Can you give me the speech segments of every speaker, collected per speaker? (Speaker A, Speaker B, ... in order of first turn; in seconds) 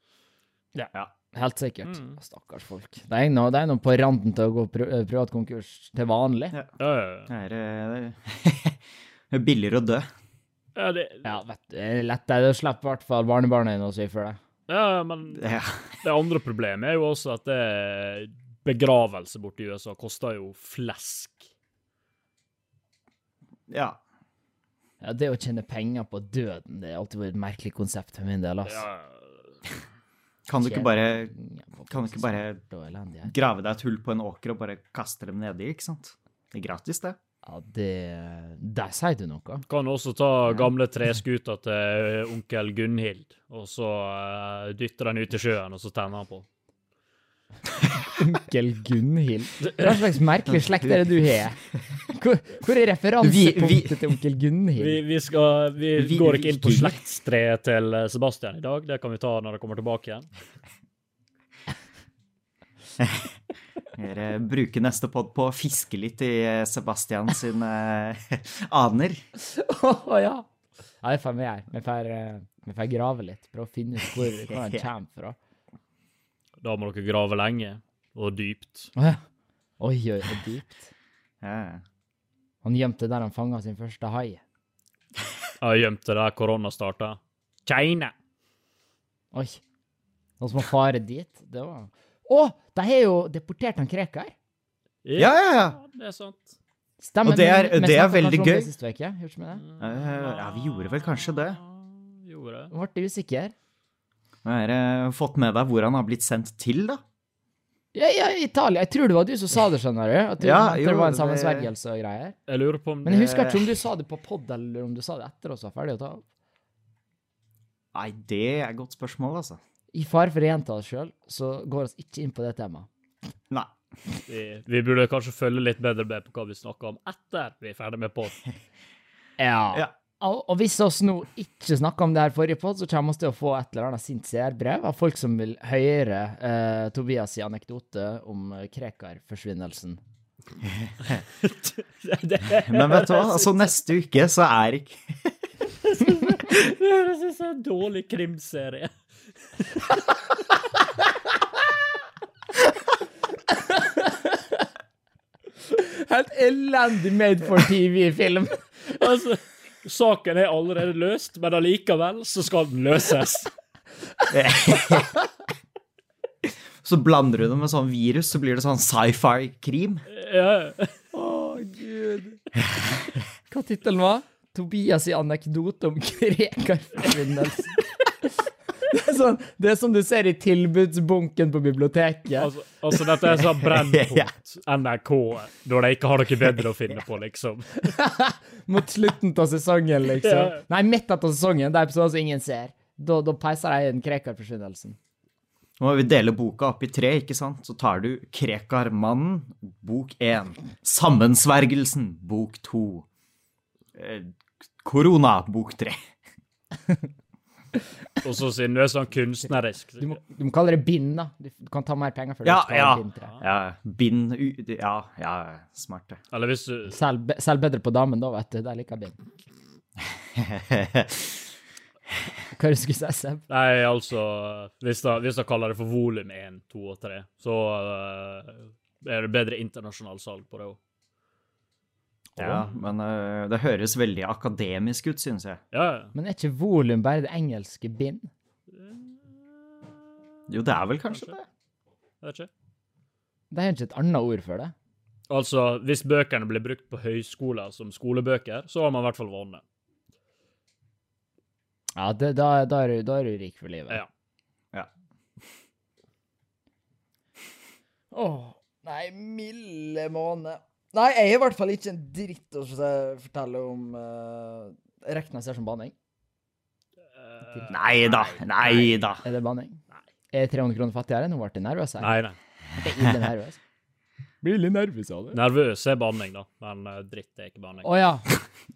Speaker A: 0.8-6.5, 11.2-14.4, 25.0-28.9, 30.6-33.3, 37.5-39.6, 48.0-55.0, 69.4-70.5, 71.0-75.4, 79.0-79.2, 79.8-80.9, 82.6-84.4, 89.3-89.6, 90.4-94.3, 97.0-99.6, 102.7-103.5, 107.9-112.4, 113.0-116.2, 119.9-122.9, 129.4-140.0, 153.5-154.4, 155.7-159.0, 171.1-172.4, 173.5-177.8, 178.9-182.5, 187.9-195.0, 210.0-213.3, 216.9-219.2, 222.5-223.4, 236.1-238.3, 243.5-244.7, 252.0-254.0, 258.1-265.9, 267.5-272.1, 272.8-273.6, 274.4-275.4, 277.8-278.3
Speaker B: 1.9-2.2, 6.8-7.3, 10.8-11.4, 14.7-15.5, 16.0-21.5, 28.7-29.6, 39.7-46.5, 49.7-50.0, 54.8-60.3, 76.6-78.9, 85.6-88.1, 95.0-96.6, 99.6-102.7, 112.5-113.3, 124.3-128.4, 141.4-143.6, 145.9-148.9, 149.6-150.0, 159.0-163.5, 170.1-171.0, 182.4-187.9, 190.2-190.6, 208.2-210.1, 216.3-217.0, 223.5-230.8, 232.4-232.7, 235.7-236.1, 238.7-240.1, 242.2-242.5, 245.3-249.6, 267.2-269.1, 272.0-272.4, 275.3-277.9
Speaker C: 7.3-8.8, 9.3-10.1, 15.3-16.0, 23.7-24.0, 30.5-31.3, 31.9-32.6, 33.3-37.2, 53.2-54.0, 56.0-57.0, 63.0-63.3, 64.0-69.2, 74.5-74.8, 81.4-81.8, 95.2-95.8, 97.2-98.7, 99.8-101.6, 104.5-107.0, 110.4-111.7, 113.1-113.7, 117.9-119.6, 140.6-141.2, 142.6-145.3, 164.3-165.2, 166.8-170.1, 183.4-184.3, 195.8-203.1, 203.9-206.0, 212.4-216.2, 220.2-221.4, 232.4-235.6, 240.5-241.5, 267.7-269.2